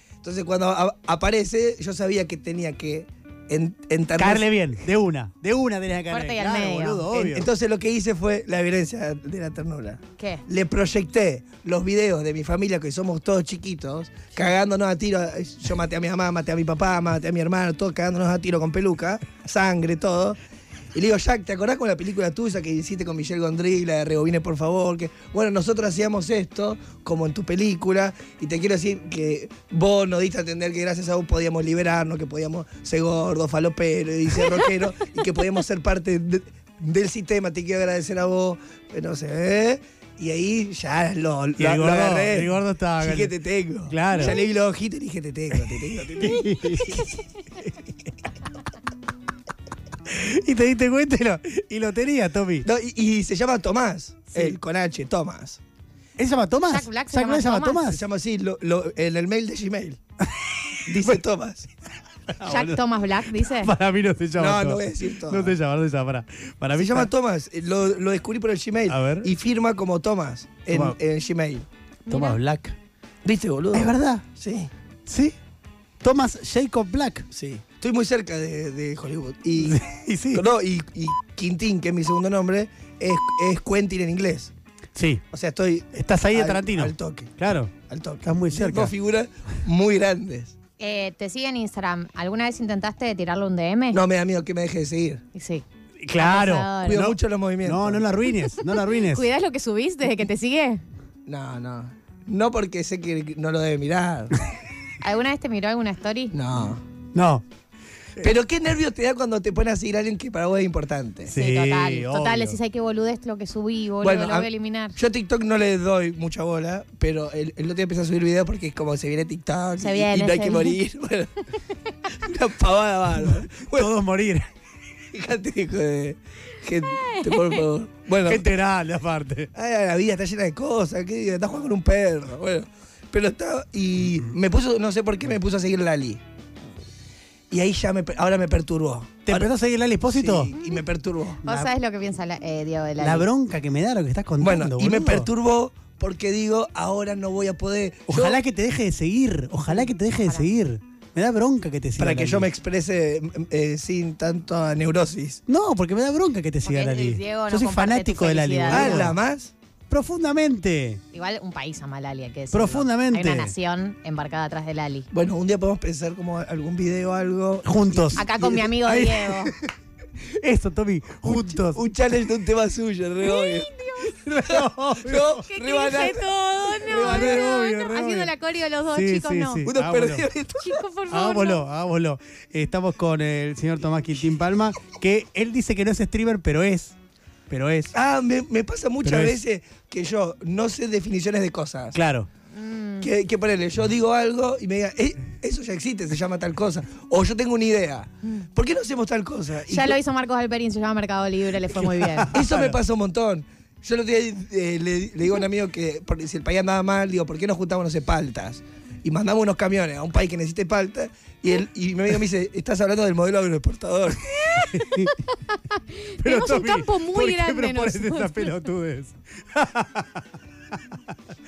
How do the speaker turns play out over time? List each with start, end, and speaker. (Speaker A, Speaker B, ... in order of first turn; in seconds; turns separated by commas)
Speaker A: 0.2-4.5, Speaker B: 4.2-7.5, Speaker C: 6.1-7.1, Speaker A: 7.1-20.4, Speaker C: 10.2-10.4, Speaker A: 20.9-47.0, Speaker B: 41.6-43.3, Speaker B: 43.9-44.4, Speaker B: 46.2-47.1, Speaker B: 50.1-52.7, Speaker A: 52.6-55.6, Speaker B: 56.2-58.0, Speaker C: 56.7-57.8, Speaker A: 57.9-60.0, Speaker B: 60.3-61.2, Speaker A: 60.9-61.7, Speaker B: 62.3-62.8, Speaker C: 62.5-63.7, Speaker B: 63.3-67.1, Speaker A: 64.4-65.6, Speaker A: 66.8-71.7, Speaker B: 68.9-69.3, Speaker B: 70.7-71.0, Speaker C: 72.1-72.4, Speaker B: 72.1-72.8, Speaker A: 73.2-74.7, Speaker B: 73.7-74.2, Speaker B: 75.1-75.4, Speaker B: 76.0-77.2, Speaker A: 77.3-84.5, Speaker B: 79.6-80.4, Speaker B: 85.0-85.2, Speaker A: 85.3-90.5, Speaker B: 85.9-88.9, Speaker C: 90.8-94.0, Speaker A: 93.9-95.2, Speaker C: 95.3-95.6, Speaker B: 96.0-99.2, Speaker C: 96.2-97.1, Speaker A: 96.8-98.1, Speaker C: 98.5-100.8, Speaker A: 101.2-104.3, Speaker C: 105.0-106.4, Speaker A: 106.3-106.8, Speaker B: 107.1-107.4, Speaker A: 108.2-111.3, Speaker B: 111.3-112.6, Speaker C: 111.3-115.0, Speaker A: 114.0-121.5, Speaker C: 119.8-120.8, Speaker A: 122.1-123.9, Speaker B: 123.5-124.5, Speaker A: 125.1-128.4, Speaker C: 127.0-127.6, Speaker B: 128.2-129.5, Speaker A: 129.5-136.2, Speaker A: 137.5-139.5, Speaker B: 139.2-140.5, Speaker A: 140.1-141.4, Speaker C: 141.4-143.3, Speaker B: 141.4-141.7, Speaker B: 143.0-145.3, Speaker A: 144.4-148.4, Speaker B: 148.1-152.5, Speaker A: 152.0-155.4, Speaker B: 155.5-159.2, Speaker C: 156.6-159.1, Speaker A: 158.7-159.5, Speaker B: 159.9-161.0, Speaker C: 161.1-165.1, Speaker B: 162.5-163.5, Speaker A: 165.1-168.8, Speaker B: 167.7-168.2, Speaker C: 168.2-169.5, Speaker B: 168.8-169.4, Speaker B: 170.2-171.8, Speaker A: 171.2-173.7, Speaker C: 173.2-174.2, Speaker B: 174.2-175.4, Speaker A: 174.5-177.5, Speaker C: 175.4-179.7, Speaker B: 176.9-178.3, Speaker B: 178.9-180.2, Speaker A: 179.7-180.8, Speaker C: 180.6-181.6, Speaker B: 181.1-187.0, Speaker B: 187.5-187.9, Speaker A: 187.9-192.0, Speaker B: 189.0-189.4, Speaker B: 191.9-192.3, Speaker C: 192.5-193.1, Speaker A: 193.0-200.0, Speaker C: 199.7-202.3, Speaker B: 201.8-202.8, Speaker A: 202.3-214.3, Speaker C: 214.5-218.6, Speaker B: 214.6-215.2, Speaker B: 216.2-220.2